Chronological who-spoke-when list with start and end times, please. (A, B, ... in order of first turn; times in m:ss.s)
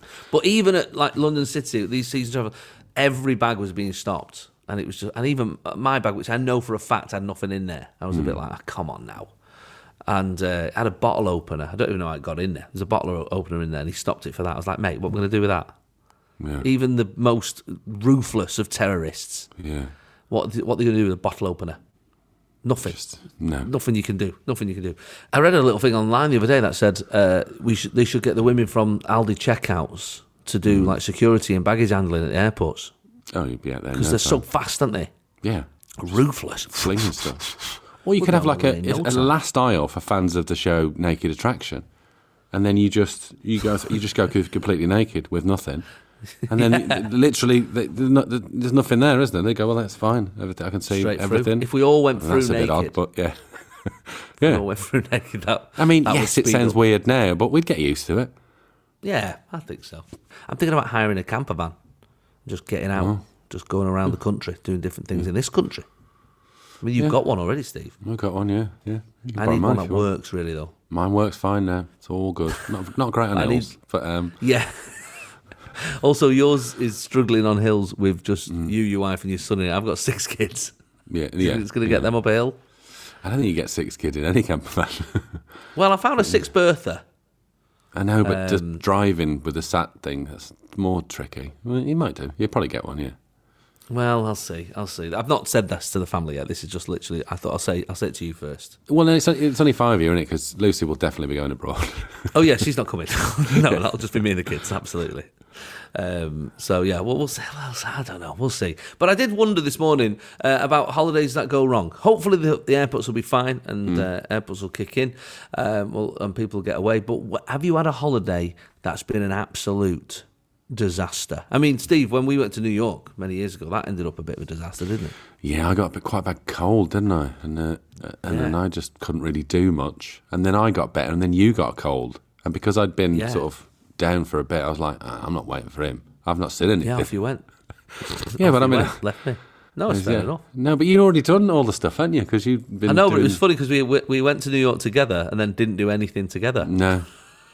0:00.3-0:09.3 A
0:08.1-0:08.4 B
0:10.1-0:15.8 A
0:16.4-0:16.7 B
0:16.6-0:19.5 A
0:19.6-0:19.9 B
0:20.3-0:21.8 A
0:22.6-0:23.0 A
0:22.9-0:23.7 B
0:23.6-0:32.9 A
0:30.6-0:31.0 B
0:33.3-0:34.4 B
0:33.9-0:35.1 A
0:35.4-0:35.7 B
0:36.0-0:37.5 A
0:36.7-0:41.9 B
0:38.2-0:39.3 A
0:42.5-0:45.9 B
0:46.4-0:47.0 A
0:46.5-0:54.6 B
0:50.9-0:53.0 A
0:54.4-0:56.8 A
0:55.8-0:58.3 B
0:59.0-1:01.8 A
1:02.5-1:05.9 A
1:03.0-1:03.2 B
1:06.8-1:08.0 A
1:08.0-1:10.1 B
1:09.4-1:10.7 A
1:10.9-1:14.4 B
1:13.3-1:13.7 A
1:14.4-1:15.2 A
1:15.8-1:20.7 A
1:18.5-1:18.8 B
1:21.1-1:22.1 B
1:21.4-1:22.6 A
1:23.2-1:25.4 B
1:25.8-1:27.0 A
1:28.0-1:33.2 B
1:28.2-1:28.8 A
1:33.9-1:38.8 A
1:38.9-1:42.4 B
1:42.3-2:05.2 A
1:43.6-1:43.8 B
2:05.4-2:17.1 B
2:08.3-2:08.6 A
2:13.1-2:13.5 A
2:16.8-2:17.5 A
2:18.0-2:19.0 B
2:18.1-2:20.4 A
2:19.9-2:23.4 B
2:22.8-2:26.7 A
2:26.6-2:27.1 B